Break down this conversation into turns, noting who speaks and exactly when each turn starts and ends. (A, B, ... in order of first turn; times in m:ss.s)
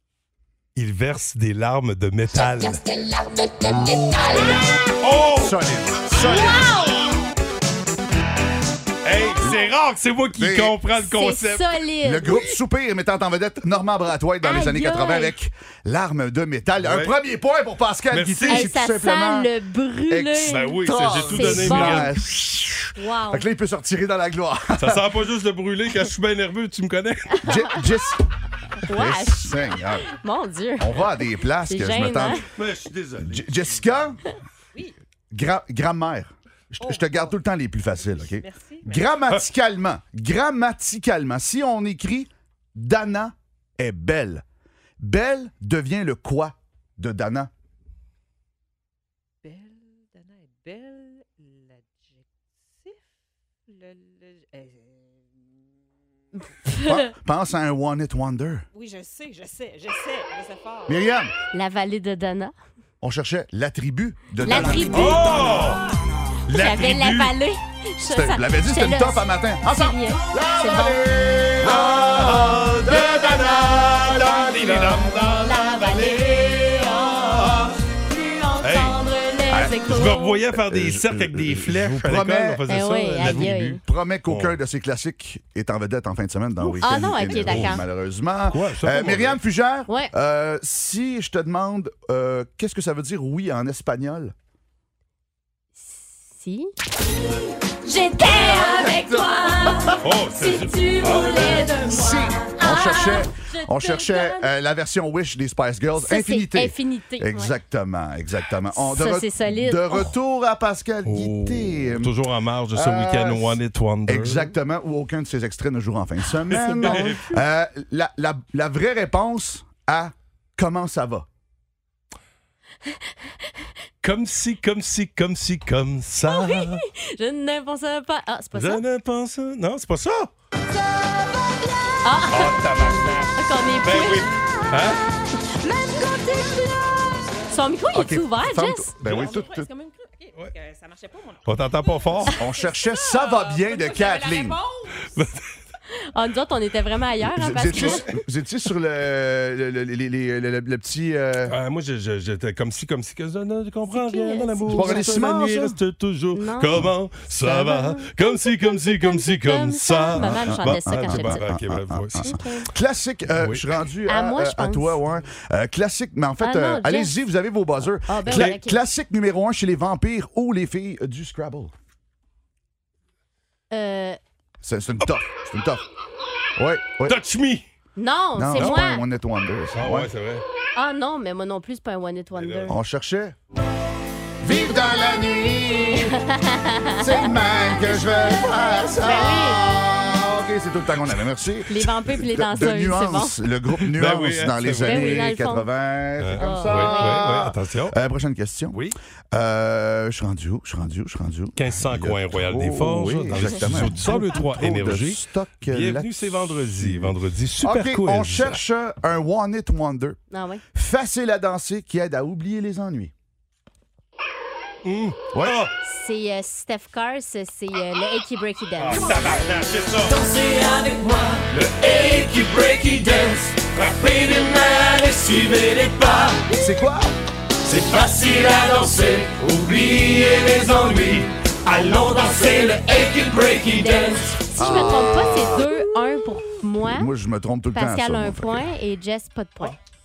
0:00.8-0:02.8 A
0:05.0-0:05.6 A
0:05.4-0:06.7 B
0:06.1-0:07.0 C
0:09.0-0:11.7 A
0:10.4-0:10.8 B
0:11.0-0:12.6 C
0:12.0-0:19.5 B
0:14.4-0:15.4 C
0:16.8-0:17.1 A
0:18.1-0:18.8 A
0:18.5-0:22.1 C
0:20.1-0:25.0 B
0:20.5-0:22.2 A
0:23.0-0:23.4 C
0:24.8-0:27.4 A
0:27.4-0:27.7 C
0:27.4-0:28.2 B
0:28.8-0:30.9 C
0:28.9-0:30.1 B
0:30.8-0:32.5 B
0:31.6-0:32.4 C
0:32.5-0:33.8 A
0:33.2-0:34.2 B
0:35.3-0:44.4 B
0:36.8-0:37.4 D
0:37.9-0:39.2 D
0:45.0-0:47.5 B
0:49.4-0:53.0 D
0:53.7-0:55.2 D
0:56.8-0:58.6 B
0:58.7-1:01.1 D
1:00.9-1:01.3 B
1:01.5-1:02.5 C
1:03.0-1:05.2 B
1:04.4-1:05.6 C
1:04.5-1:05.7 D
1:04.8-1:05.8 A
1:06.5-1:07.3 A
1:06.5-1:11.0 C
1:08.0-1:12.6 B
1:11.6-1:17.8 A
1:11.6-1:12.3 C
1:12.9-1:20.4 C
1:18.6-1:19.0 A
1:19.5-1:22.7 B
1:19.9-1:24.6 A
1:22.7-1:23.8 C
1:23.2-1:34.3 B
1:26.6-1:27.8 C
1:27.3-1:27.9 A
1:28.5-1:29.4 A
1:35.8-1:36.7 C
1:37.8-1:44.5 C
1:38.2-1:40.0 B
1:40.0-1:41.8 A
1:41.3-1:52.1 B
1:46.0-1:47.5 C
1:48.7-1:50.1 C
1:51.0-1:54.5 A
1:52.7-2:01.2 B
1:56.5-1:57.4 A
1:56.6-1:57.4 C
2:04.0-2:06.8 A
2:06.3-2:08.8 C
2:08.5-2:10.3 A
2:12.0-2:12.7 C
2:12.3-2:15.0 A
2:13.3-2:14.3 C
2:15.9-2:16.6 C
2:17.5-2:18.9 C
2:17.9-2:19.7 B
2:19.0-2:19.4 A
2:19.1-2:25.3 D
2:21.5-2:22.4 A
2:22.4-2:24.6 B
2:25.2-2:25.4 A
2:26.0-2:28.2 C
2:27.3-2:31.6 B
2:27.7-2:28.1 A
2:31.5-2:42.3 A
2:33.9-2:35.2 C
2:34.7-2:35.8 B
2:36.4-2:41.5 C
2:40.1-2:51.7 B
2:42.2-2:42.7 C
2:43.3-2:43.6 A
2:44.1-2:45.0 C
2:46.4-2:47.2 C
2:48.1-2:48.8 C
2:48.3-2:48.5 A
2:53.7-2:54.2 C
2:54.6-2:55.8 B
2:56.6-2:57.2 B
2:57.0-2:57.6 A
2:58.0-2:59.0 C
2:58.4-3:00.1 B
2:59.7-3:00.4 A
3:00.8-3:02.8 C
3:02.4-3:02.8 A
3:02.7-3:03.4 B
3:04.4-3:06.1 B
3:04.5-3:05.2 C
3:05.9-3:09.6 C
3:07.0-3:18.8 B
3:11.7-3:13.4 C
3:13.9-3:15.4 A
3:14.8-3:15.7 C
3:16.2-3:18.0 A
3:16.4-3:17.3 C
3:18.7-3:19.0 A
3:19.3-3:30.2 B
3:21.6-3:28.6 A
3:30.3-3:30.6 C
3:30.8-3:33.1 B
3:34.8-3:35.7 A
3:35.8-3:39.5 C
3:38.8-3:40.2 A
3:40.1-3:46.4 E
3:46.5-3:47.1 B
3:47.6-3:54.5 E
3:53.7-3:57.1 C
3:54.6-3:55.7 B
3:56.8-3:58.7 B
3:57.7-3:59.8 C